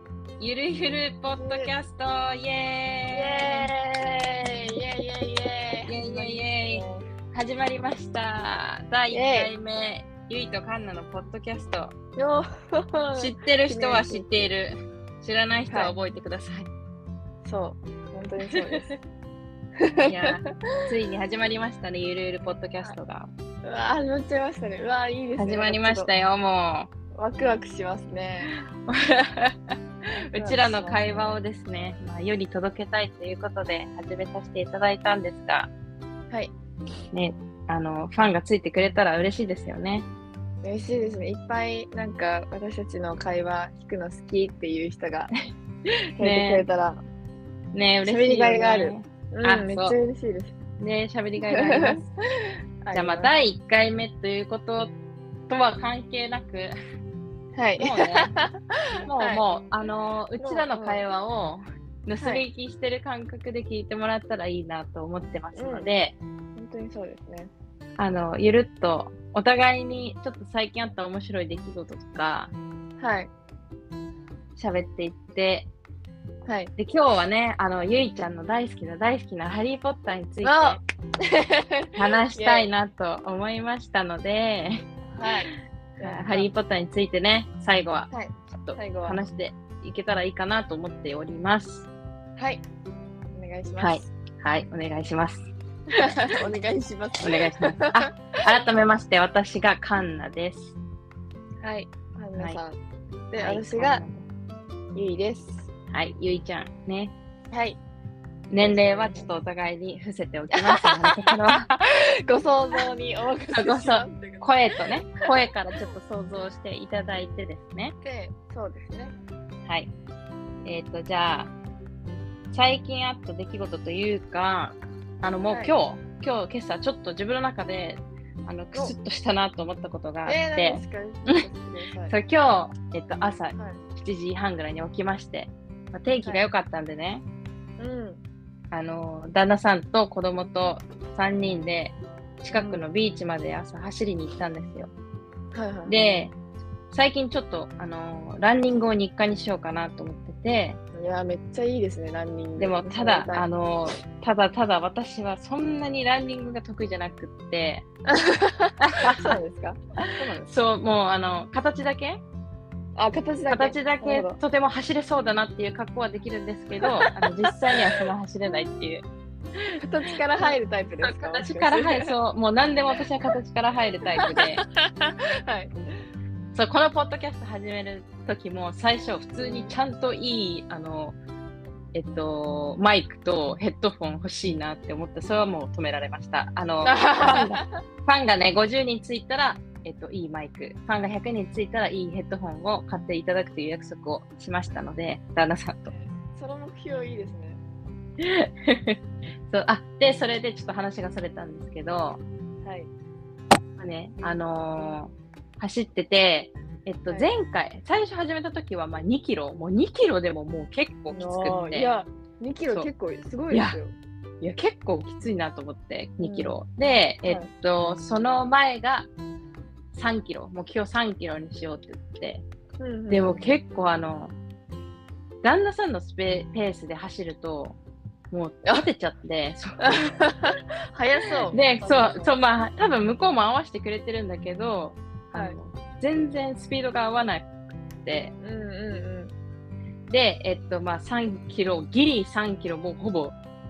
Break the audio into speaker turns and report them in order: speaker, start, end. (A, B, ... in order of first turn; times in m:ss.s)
0:00.4-0:03.7 A
0:01.4-0:01.7 B
0:03.1-0:07.0 B
0:05.8-0:11.9 A
0:09.1-0:09.5 B
0:12.2-0:14.5 B
0:13.2-0:16.7 A
0:17.4-0:18.9 B
0:18.4-0:19.0 A
0:19.8-0:20.8 B
0:20.0-0:23.3 A
0:23.6-0:26.1 B
0:25.4-0:26.9 A
0:27.2-0:28.5 B
0:28.8-0:35.7 A
0:30.1-0:31.4 B
0:37.1-0:40.1 A
0:40.6-0:45.3 B
0:46.2-0:46.6 A
0:46.2-0:47.0 B
0:47.7-0:50.0 A
0:48.0-0:50.5 B
0:50.8-0:52.1 A
0:51.5-0:52.1 B
0:52.8-0:53.3 B
0:52.9-0:54.9 A
0:55.5-0:56.7 A
0:57.6-0:59.4 B
0:57.8-0:58.3 A
0:59.0-1:06.1 A
1:00.4-1:01.0 B
1:05.5-1:05.9 B
1:06.6-1:07.5 B
1:08.0-1:12.5 A
1:13.0-1:13.3 B
1:14.6-1:15.7 A
1:16.4-1:16.7 B
1:16.8-1:20.8 A
1:20.4-1:22.7 B
1:21.9-1:25.3 A
1:25.1-1:26.5 B
1:26.0-1:31.9 A
1:28.1-1:29.2 B
1:32.4-1:32.6 B
1:33.3-1:34.1 B
1:33.8-1:35.5 A
1:36.0-1:38.6 B
1:37.2-1:40.8 A
1:41.6-1:42.8 B
1:43.3-1:44.0 B
1:43.4-1:44.3 A
1:45.0-1:45.7 B
1:45.9-1:47.1 A
1:47.5-1:47.8 B
1:48.5-1:51.8 A
1:48.6-1:49.3 B
1:50.5-1:55.3 B
1:53.5-1:57.9 A
1:58.0-1:59.1 B
1:59.6-1:59.9 A
2:00.6-2:01.5 A
2:02.5-2:11.4 A
2:05.5-2:05.7 B
2:10.2-2:12.1 B
2:12.1-2:17.2 A
2:13.6-2:13.8 B
2:17.8-2:18.2 B
2:18.7-2:24.9 A
2:22.5-2:22.8 B
2:25.5-2:26.2 B
2:25.9-2:26.3 A
2:26.9-2:30.8 A
2:30.9-2:33.5 B
2:32.6-2:37.8 A
2:38.1-2:40.5 B
2:38.8-2:39.4 A
2:40.0-2:42.2 A
2:43.0-2:44.4 B
2:43.5-2:49.0 A
2:46.8-2:48.0 B
2:49.8-2:52.1 B
2:50.4-2:54.6 A
2:54.1-2:55.7 B
2:56.5-3:01.2 A
2:59.4-2:59.7 B
3:01.9-3:15.9 A
3:06.8-3:07.7 B
3:15.9-3:17.6 B
3:18.2-3:22.2 A
3:22.6-3:22.9 B
3:23.8-3:31.9 A
3:31.1-3:33.9 B
3:33.5-3:33.8 A
3:34.4-3:39.1 A
3:36.2-3:36.6 B
3:39.9-3:42.4 A
3:42.8-3:43.5 B
3:43.1-3:44.3 A
3:45.4-3:47.8 A
3:48.3-3:50.0 A
3:49.8-3:52.4 B
3:51.5-3:58.3 A
3:58.4-3:59.3 B
4:00.1-4:03.4 A